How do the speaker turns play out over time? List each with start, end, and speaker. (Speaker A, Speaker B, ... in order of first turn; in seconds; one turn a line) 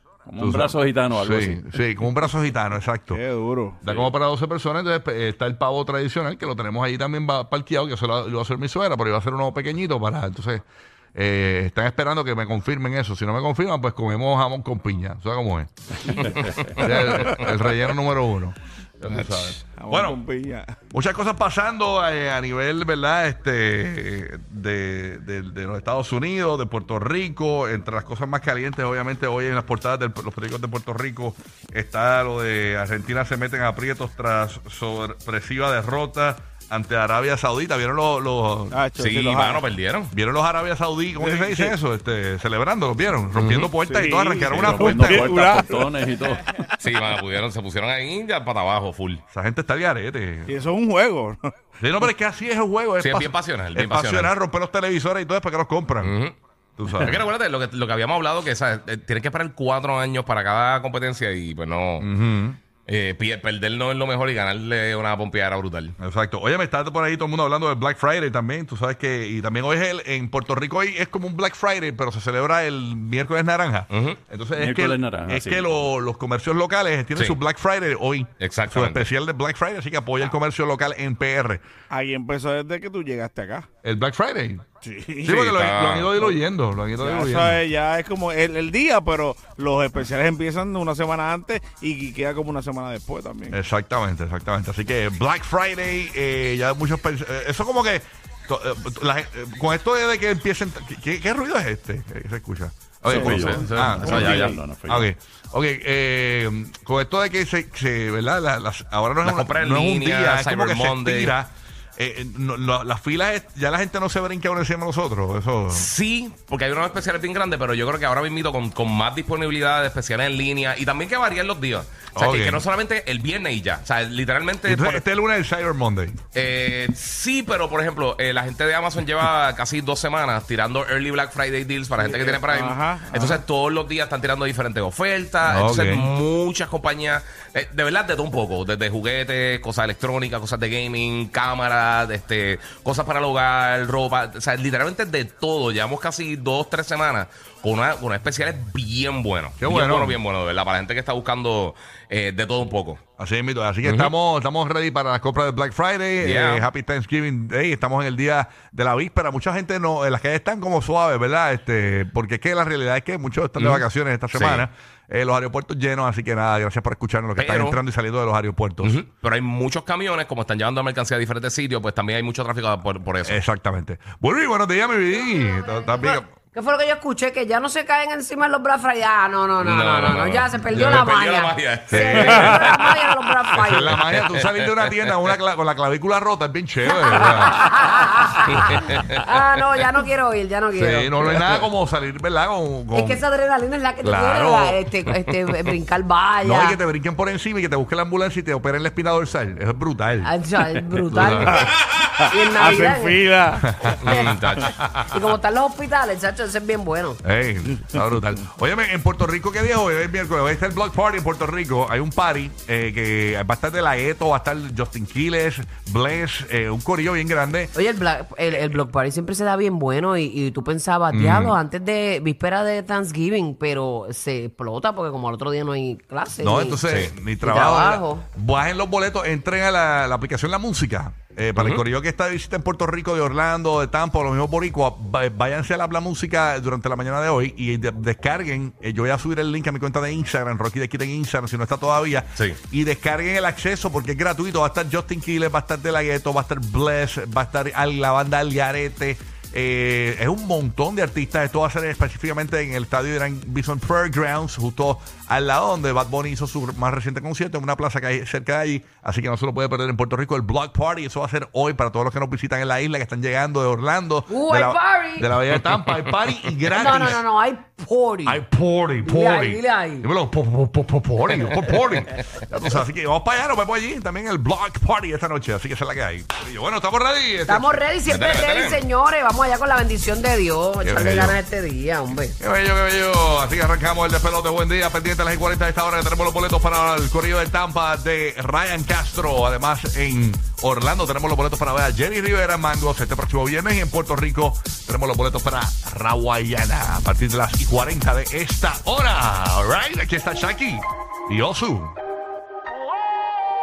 Speaker A: 0.3-1.8
Speaker B: 0.4-3.2
Speaker C: 3.1-3.8
Speaker B: 3.8-10.6
Speaker B: 11.1-20.2
Speaker D: 16.2-17.5
Speaker A: 16.3-16.8
Speaker D: 19.1-19.4
Speaker C: 19.6-20.8
Speaker B: 20.9-38.8
Speaker C: 38.7-39.6
Speaker D: 39.0-40.1
Speaker B: 40.1-45.4
Speaker C: 41.2-41.7
Speaker D: 43.4-43.7
Speaker C: 43.8-46.0
Speaker A: 44.1-46.6
Speaker D: 46.8-49.2
Speaker B: 49.3-50.5
Speaker C: 50.5-51.4
Speaker B: 51.8-56.1
Speaker D: 53.0-54.3
Speaker D: 56.0-56.3
Speaker B: 56.8-57.2
Speaker D: 56.9-62.1
Speaker B: 62.0-62.6
Speaker D: 62.9-66.0
Speaker B: 66.0-81.6
Speaker D: 73.9-74.2
Speaker A: 74.6-75.8
Speaker D: 78.4-79.1
Speaker C: 81.9-83.7
Speaker B: 83.8-84.6
Speaker C: 84.8-85.5
Speaker B: 85.2-87.6
Speaker D: 85.4-86.1
Speaker C: 87.0-93.5
Speaker B: 93.5-115.9
Speaker C: 103.0-104.6
Speaker A: 103.1-105.1
Speaker D: 103.2-104.6
Speaker D: 109.2-111.3
Speaker D: 115.7-125.0
Speaker B: 122.1-122.6
Speaker B: 124.6-126.2
Speaker D: 126.3-153.0
Speaker C: 132.0-133.4
Speaker B: 135.4-136.0
Speaker B: 149.6-150.2
Speaker B: 153.2-169.0
Speaker D: 153.8-154.1
Speaker D: 156.2-156.7
Speaker D: 163.6-164.7
Speaker D: 167.4-167.8
Speaker D: 168.8-173.4
Speaker B: 173.2-176.3
Speaker E: 175.1-184.0
Speaker D: 179.6-182.8
Speaker B: 180.7-181.1
Speaker B: 181.9-182.8
Speaker B: 183.5-188.7
Speaker E: 186.9-191.4
Speaker D: 188.5-189.0
Speaker B: 190.8-193.2
Speaker E: 192.9-196.8
Speaker B: 194.0-195.3
Speaker B: 196.4-200.3
Speaker E: 200.2-201.7
Speaker B: 200.9-201.7
Speaker C: 202.2-203.9
Speaker E: 202.2-203.3
Speaker B: 203.8-204.3
Speaker E: 203.9-204.4
Speaker D: 203.9-204.8
Speaker E: 205.0-207.2
Speaker B: 207.2-217.7
Speaker E: 217.7-226.8
Speaker B: 221.1-221.6
Speaker B: 226.4-267.2
Speaker D: 226.8-227.1
Speaker E: 227.4-228.2
Speaker D: 231.6-231.8
Speaker E: 264.3-265.3
Speaker E: 266.7-268.4
Speaker B: 268.2-277.8
Speaker E: 269.0-270.1
Speaker E: 277.4-282.4
Speaker D: 278.1-278.8
Speaker B: 280.8-281.4
Speaker B: 282.4-301.9